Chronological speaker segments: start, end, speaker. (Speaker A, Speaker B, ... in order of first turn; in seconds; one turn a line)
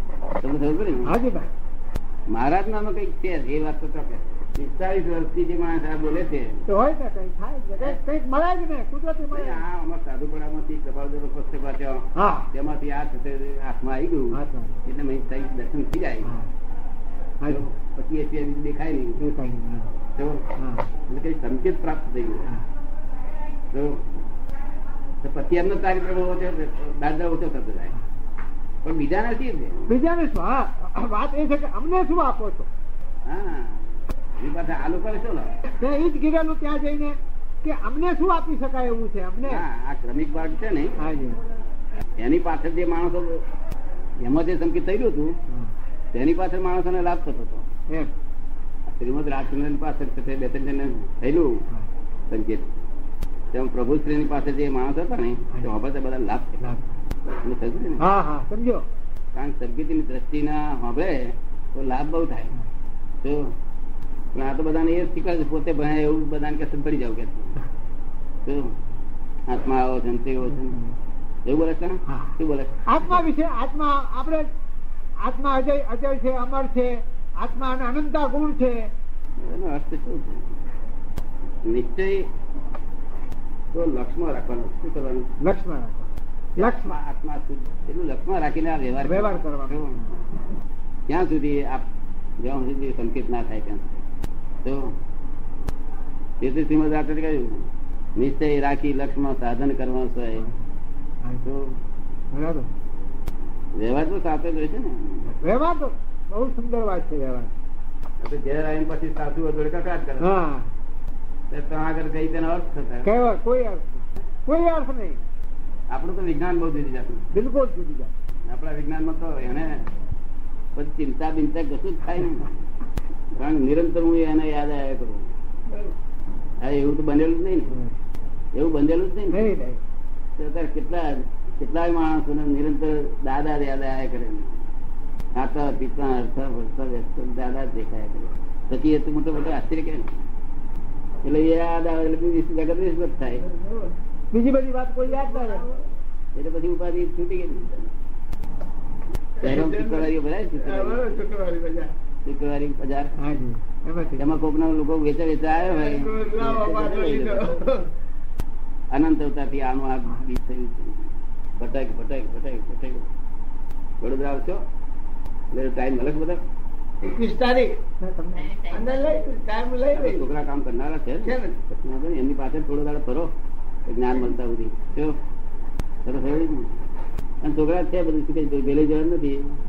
Speaker A: 0.4-1.1
Speaker B: 1.0-1.5
Speaker A: 2.3-6.6
Speaker B: 6.7-9.6
Speaker A: 9.3-16.3
Speaker B: 12.1-12.5
Speaker B: 14.3-14.8
Speaker A: 17.5-19.2
Speaker B: 19.2-19.9
Speaker A: 20.2-20.4
Speaker B: 20.6-20.9
Speaker A: 21.1-22.5
Speaker A: 23.7-24.0
Speaker A: 25.2-27.9
Speaker A: 28.8-29.8
Speaker B: 29.9-32.7
Speaker A: 33.2-33.8
Speaker A: 34.4-35.5
Speaker B: 35.8-39.6
Speaker A: 39.4-41.0
Speaker B: 41.0-41.4
Speaker A: 42.2-43.4
Speaker A: 44.2-45.4
Speaker A: 46.1-47.6
Speaker A: 48.9-51.6
Speaker A: 52.3-52.7
Speaker A: 53.5-56.6
Speaker A: 57.3-58.0
Speaker B: 58.0-58.9
Speaker A: 59.3-62.5
Speaker A: 63.2-63.5
Speaker A: 64.3-67.5
Speaker A: 68.4-68.7
Speaker A: 69.5-70.8
Speaker B: 70.5-70.9
Speaker A: 71.5-72.7
Speaker B: 72.1-72.3
Speaker B: 72.9-74.5
Speaker B: 75.2-78.9
Speaker A: 79.4-80.4
Speaker A: 81.7-82.3
Speaker A: 83.7-85.3
Speaker B: 85.4-87.0
Speaker A: 86.6-90.0
Speaker B: 89.0-90.1
Speaker A: 91.1-91.8
Speaker A: 92.4-94.0
Speaker A: 94.6-94.9
Speaker A: 96.4-100.5
Speaker A: 101.4-101.8
Speaker B: 102.3-102.7
Speaker A: 103.8-105.2
Speaker B: 105.2-107.5
Speaker A: 108.2-110.3
Speaker B: 110.2-110.7
Speaker A: 111.5-113.1
Speaker B: 113.0-115.2
Speaker A: 115.9-117.2
Speaker B: 117.3-118.1
Speaker A: 118.5-119.8
Speaker A: 120.7-122.5
Speaker A: 123.3-125.3
Speaker A: 126.6-127.7
Speaker B: 127.7-127.9
Speaker A: 128.5-129.4
Speaker B: 129.3-129.8
Speaker A: 130.4-134.5
Speaker A: 135.3-140.1
Speaker A: 141.2-143.4
Speaker C: 143.4-143.9
Speaker B: 144.3-145.6
Speaker C: 145.0-145.8
Speaker A: 146.3-147.9
Speaker C: 149.4-151.9
Speaker A: 149.4-151.0
Speaker A: 152.2-153.1
Speaker B: 153.2-154.3
Speaker A: 154.2-157.6
Speaker C: 155.6-157.9
Speaker A: 158.9-161.0
Speaker A: 161.6-163.1
Speaker A: 164.0-164.6
Speaker A: 165.5-166.4
Speaker C: 167.0-167.7
Speaker B: 168.0-168.7
Speaker C: 168.7-170.3
Speaker A: 169.9-173.3
Speaker C: 171.2-171.6
Speaker A: 173.8-175.2
Speaker A: 176.0-176.7
Speaker A: 177.4-179.4